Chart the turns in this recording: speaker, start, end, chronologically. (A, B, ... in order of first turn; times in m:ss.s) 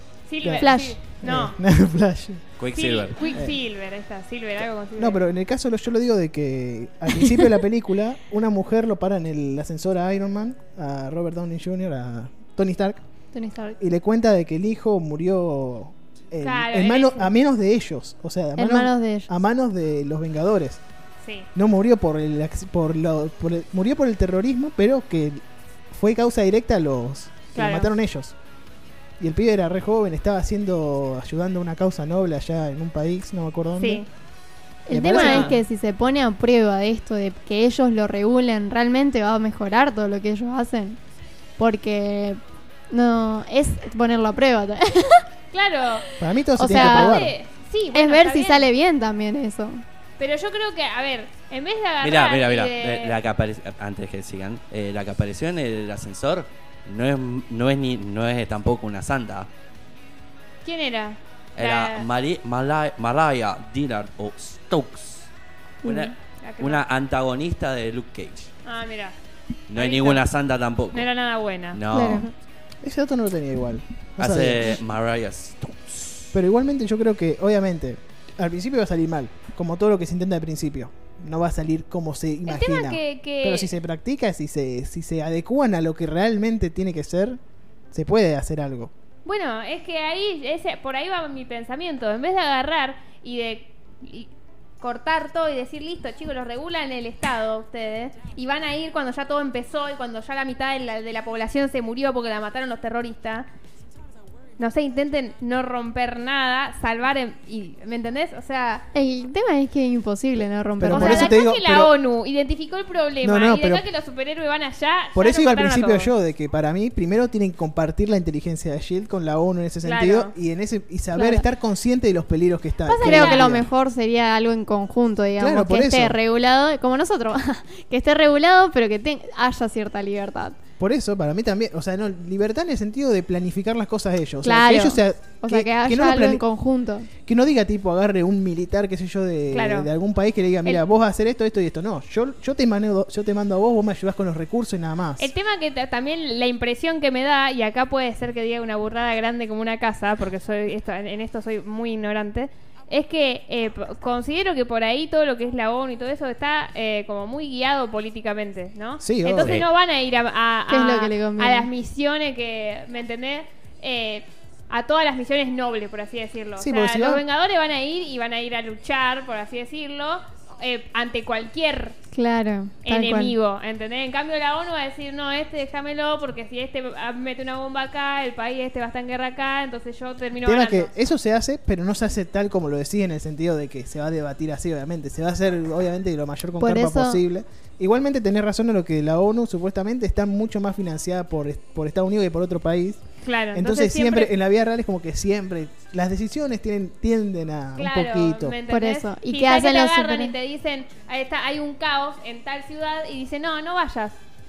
0:00.2-0:01.6 A
0:00.4-0:02.6 B
0:00.6-0:01.0 C
0:02.6-0:03.2 D
0:02.7-0:05.2 A
0:03.3-0:03.6 B
0:05.0-0:13.0 B
0:07.2-0:07.5 C
0:13.3-0:13.8 C
0:13.8-0:20.8 B
0:16.4-0:17.3 A
0:18.6-0:19.3 C
0:21.2-0:21.5 A
0:21.6-0:28.3 B
0:27.6-0:27.9 A
0:29.2-0:34.0 B
0:33.8-0:34.1 A
0:34.9-0:41.0 C
0:34.9-0:35.6 B
0:35.1-0:35.5 A
0:41.6-0:42.4 C
0:42.9-0:45.3 C
0:45.5-0:46.1 A
0:46.2-0:47.4 B
0:46.6-0:47.3 C
0:46.7-0:48.7 A
0:47.9-0:49.8 C
0:50.2-0:53.2 A
0:52.0-0:59.5 D
1:00.6-1:02.1 A
1:01.6-1:05.3 D
1:05.8-1:06.1 C
1:05.8-1:08.5 D
1:06.4-1:06.8 A
1:08.6-1:09.2 A
1:09.7-1:11.1 D
1:09.8-1:10.2 A
1:10.9-1:11.8 A
1:11.7-1:12.3 D
1:11.9-1:12.3 C
1:12.8-1:14.8 B
1:14.2-1:16.3 D
1:16.3-1:27.4 B
1:22.5-1:23.8 A
1:27.9-1:28.9 B
1:29.2-1:43.5 A
1:44.6-1:48.9 A
1:48.9-1:51.4 C
1:50.8-1:51.9 B
1:50.8-1:56.1 A
1:53.2-1:53.9 B
1:55.1-2:03.7 B
1:59.8-2:00.3 A
2:01.1-2:01.4 C
2:02.9-2:10.6 C
2:03.0-2:03.5 A
2:05.4-2:06.2 B
2:10.8-2:16.4 B
2:14.4-2:17.1 C
2:17.2-2:25.3 B
2:19.5-2:19.9 A
2:25.2-2:52.0 A
2:39.0-2:39.7 B
2:40.7-2:41.7 C
2:46.6-2:47.2 B
2:52.1-2:53.4 C
2:52.8-3:00.9 A
3:00.4-3:13.0 B
3:06.6-3:07.2 C
3:13.2-3:14.3 A
3:13.5-3:18.6 B
3:17.8-3:24.2 A
3:18.7-3:20.3 C